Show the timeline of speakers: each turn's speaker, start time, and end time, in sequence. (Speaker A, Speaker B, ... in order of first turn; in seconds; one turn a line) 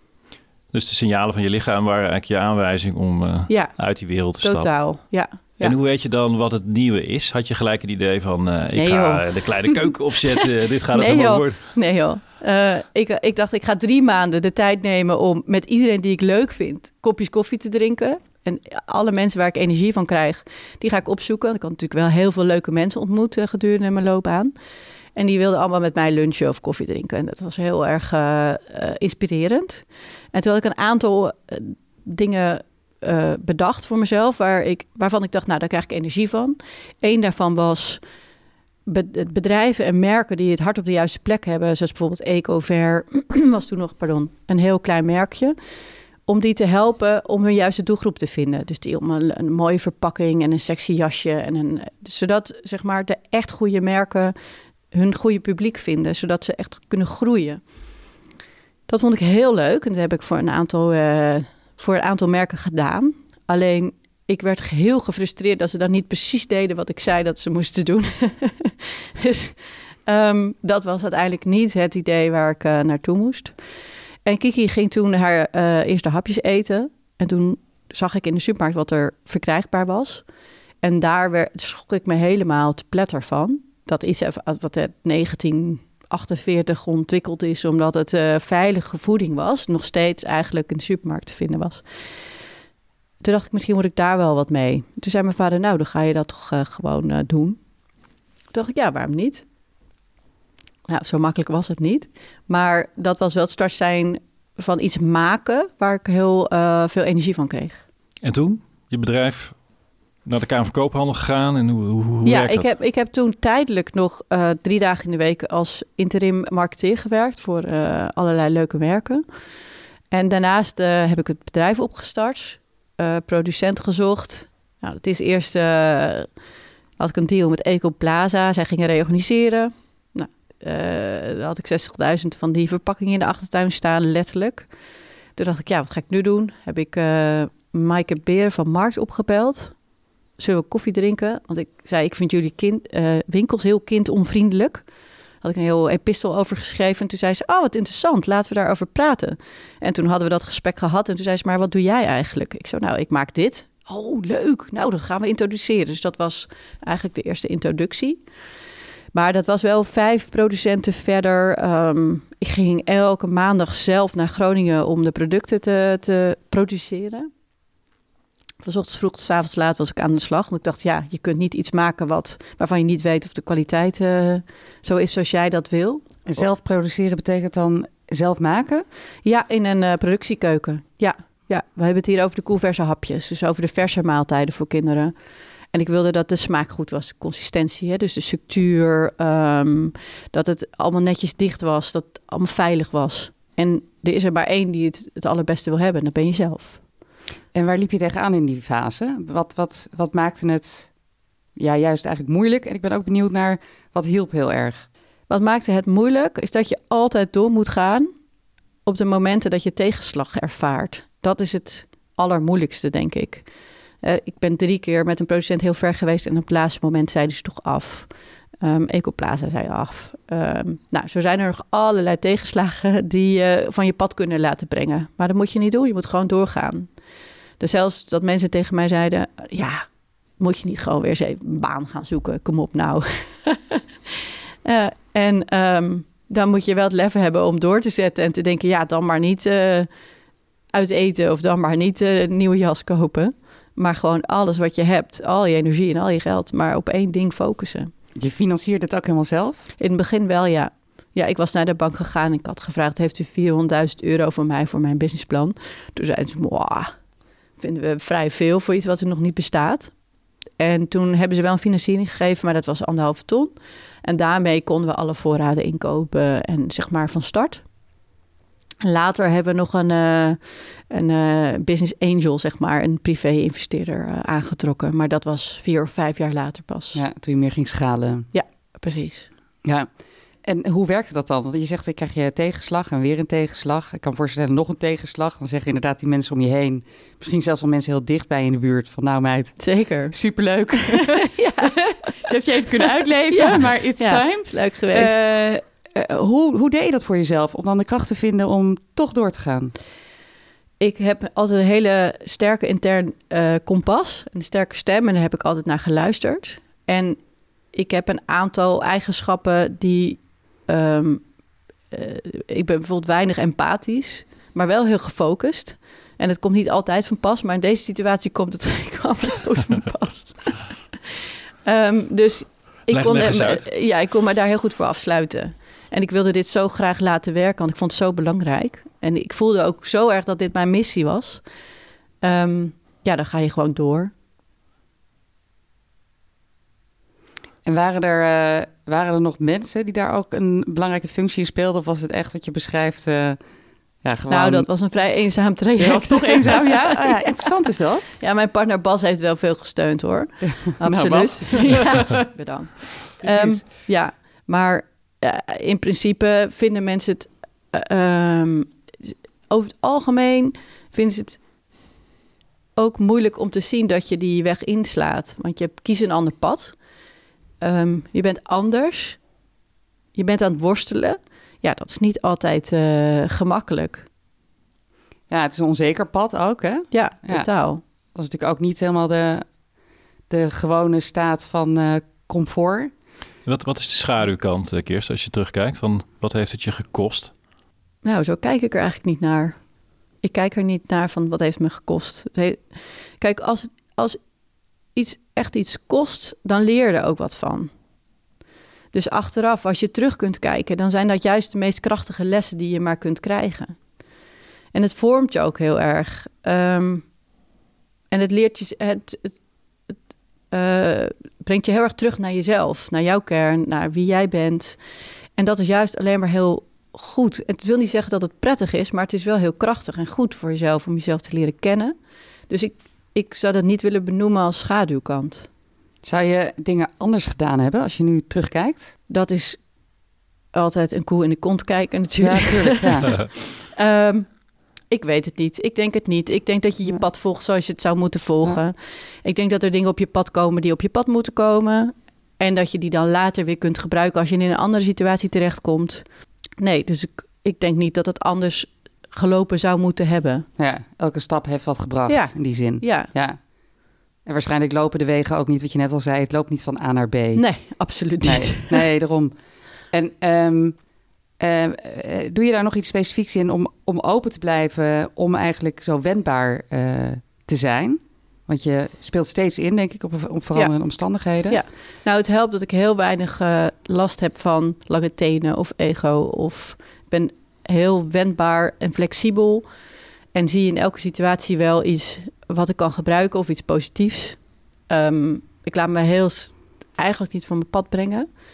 Speaker A: 0.7-4.7
Speaker B: 3.5-3.8
Speaker B: 4.3-5.7
Speaker A: 5.6-11.6
Speaker B: 8.7-9.9
Speaker B: 10.9-24.5
Speaker B: 25.1-38.0
Speaker B: 38.9-45.5
Speaker B: 46.2-54.3
Speaker B: 54.9-57.6
Speaker B: 58.9-73.5
Speaker B: 74.2-80.2
Speaker B: 80.8-91.8
Speaker B: 93.2-97.6
Speaker B: 98.5-99.5
Speaker B: 100.9-107.8
Speaker A: 108.2-109.6
Speaker A: 110.2-112.7
Speaker B: 112.2-119.2
Speaker B: 120.1-126.3
Speaker B: 127.0-134.7
Speaker B: 135.3-139.7
Speaker B: 140.4-144.8
Speaker B: 145.4-158.2
Speaker B: 159.1-167.3
Speaker B: 168.6-176.4
Speaker C: 176.2-178.8
Speaker B: 179.2-185.1
Speaker B: 185.7-196.8
Speaker C: 197.5-200.9
Speaker C: 201.6-204.8
Speaker B: 205.3-208.1
Speaker B: 208.8-213.5
Speaker B: 214.0-226.9
Speaker B: 227.6-229.8
Speaker B: 230.4-233.8
Speaker B: 234.6-239.9
Speaker B: 240.7-247.9
Speaker C: 248.1-249.7
Speaker B: 249.8-256.9
Speaker B: 257.6-259.9
Speaker B: 260.6-263.5
Speaker B: 264.0-267.6
Speaker B: 268.8-277.0
Speaker C: 276.9-278.3
Speaker B: 278.3-279.3
Speaker C: 279.6-299.8
Speaker B: 289.6-290.1
Speaker B: 291.2-292.1
Speaker B: 293.3-295.2
Speaker B: 300.8-307.2
Speaker B: 307.7-311.2
Speaker B: 311.9-320.9
Speaker B: 321.6-331.4
Speaker A: 322.9-323.6
Speaker B: 332.2-334.1
Speaker C: 337.6-343.4
Speaker C: 344.0-344.9
Speaker B: 344.3-347.4
Speaker C: 345.8-348.2
Speaker B: 348.2-361.4
Speaker C: 350.4-352.2
Speaker C: 353.2-353.6
Speaker B: 362.8-366.8
Speaker B: 367.6-369.2
Speaker B: 370.1-374.1
Speaker C: 375.3-377.5
Speaker B: 376.9-377.8
Speaker C: 378.1-379.6
Speaker C: 380.3-382.9
Speaker A: 383.4-387.3
Speaker B: 388.0-389.6
Speaker B: 390.2-394.2
Speaker B: 394.9-397.7
Speaker B: 398.9-403.8
Speaker B: 404.7-407.1
Speaker B: 408.1-409.4
Speaker B: 410.5-414.8
Speaker B: 415.4-421.9
Speaker B: 422.5-425.5
Speaker C: 426.0-428.9
Speaker B: 429.1-429.6
Speaker B: 430.5-446.0
Speaker C: 432.2-433.2
Speaker B: 446.6-450.4
Speaker C: 450.6-453.6
Speaker B: 452.1-453.1
Speaker C: 454.2-460.9
Speaker B: 457.3-458.8
Speaker C: 461.4-471.6
Speaker B: 470.5-470.8
Speaker B: 471.5-479.6
Speaker B: 480.3-488.3